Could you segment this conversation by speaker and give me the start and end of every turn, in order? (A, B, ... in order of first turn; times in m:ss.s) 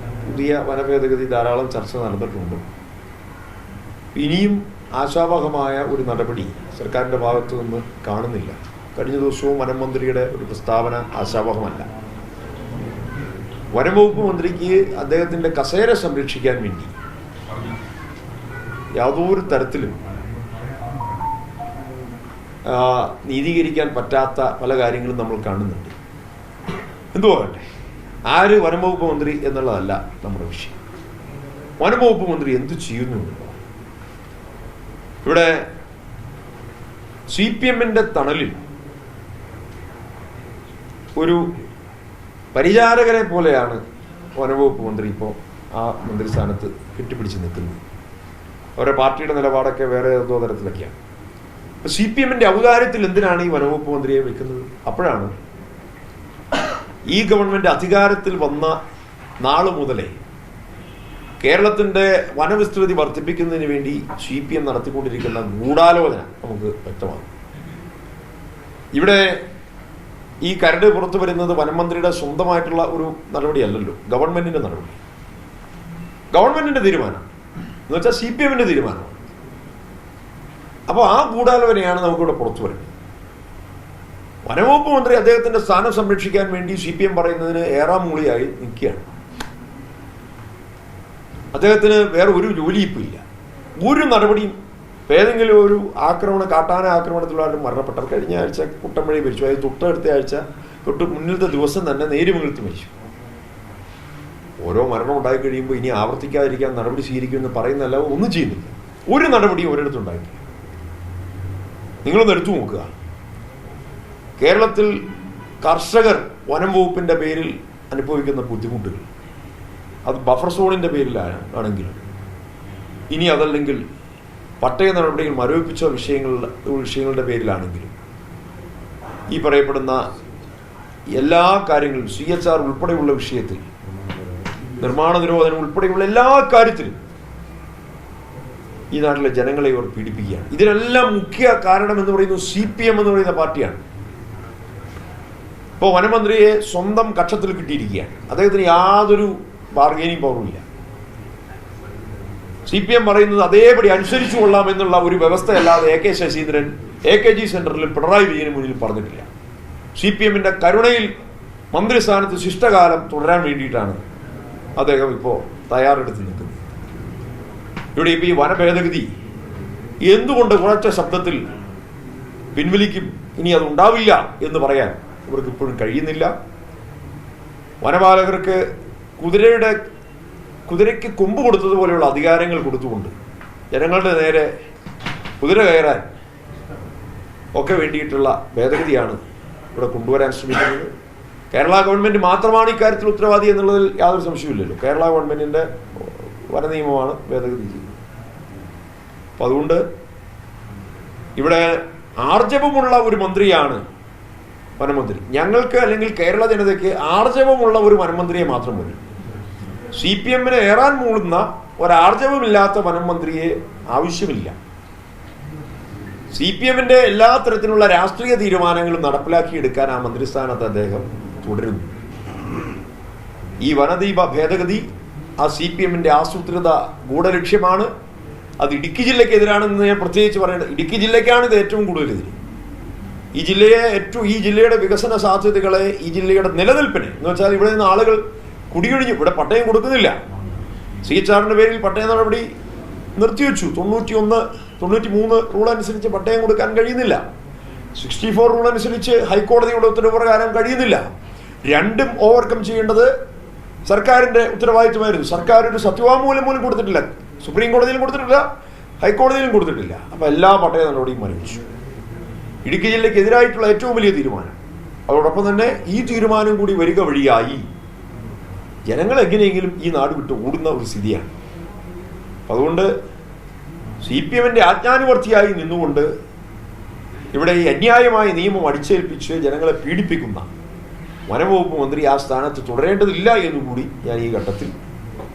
0:00.2-0:02.6 A
0:04.2-0:11.9 A
0:13.7-0:17.0 A
0:19.0-0:20.0 A
0:22.7-0:25.9 A
0:27.1-0:27.6 A
0:28.3-0:30.8 A
0:31.8-0:33.6 A
0:35.2-0:35.7 A
0:37.3-0:38.6 A
0:41.2-0:41.5 A
0:42.5-0:43.8 A
0:44.4-0:47.8 A
0:48.8-0:50.9 A
0:51.8-0:55.3 A
0:57.1-0:58.8 A
0:59.4-1:00.2 A
1:01.4-1:07.3 A
1:08.9-1:09.4 A
1:10.4-1:15.0 A
1:16.3-1:17.2 A
1:17.9-1:19.2 A
1:20.9-1:22.9 A
1:24.4-1:29.1 A
1:31.5-1:33.2 A
1:33.8-1:34.6 A
1:35.1-1:42.9 A
1:44.6-1:50.4 A
1:52.0-1:52.9 A
1:54.4-1:55.0 A
1:55.6-1:59.0 A
2:00.0-2:02.0 A
2:03.1-2:03.8 A
2:04.6-2:07.9 A
2:09.3-2:10.1 A
2:11.1-2:13.6 A
2:14.8-2:17.0 A
2:18.9-2:23.8 A
2:25.8-2:30.6 A
2:32.7-2:39.3 A
2:40.0-2:41.1 A
2:41.7-2:44.0 A
2:44.8-2:46.6 A
2:48.0-2:49.1 A
2:50.1-2:51.5 A
2:52.6-2:56.3 A
2:57.8-2:58.6 A
2:59.2-2:59.8 A
3:00.7-3:03.1 A
3:03.7-3:04.5 A
3:05.4-3:06.1 A
3:07.6-3:09.2 A
3:09.7-3:10.9 A
3:11.5-3:17.9 A
3:19.4-3:19.8 A
3:21.4-3:23.8 A
3:24.8-3:29.0 A
3:30.0-3:34.6 A
3:36.3-3:41.9 A
3:43.6-3:44.9 A
3:45.4-3:47.9 A
3:48.6-3:52.4 A
3:53.4-4:00.2 A
4:01.0-4:02.5 A
4:03.2-4:07.2 A
4:08.0-4:11.1 A
4:11.7-4:13.1 A
4:13.9-4:18.5 A
4:19.0-4:21.6 A
4:22.6-4:24.6 A
4:25.1-4:27.6 A
4:28.9-4:31.3 A
4:32.5-4:32.9 A
4:34.0-4:36.1 A
4:37.3-4:40.5 A
4:41.3-4:44.7 A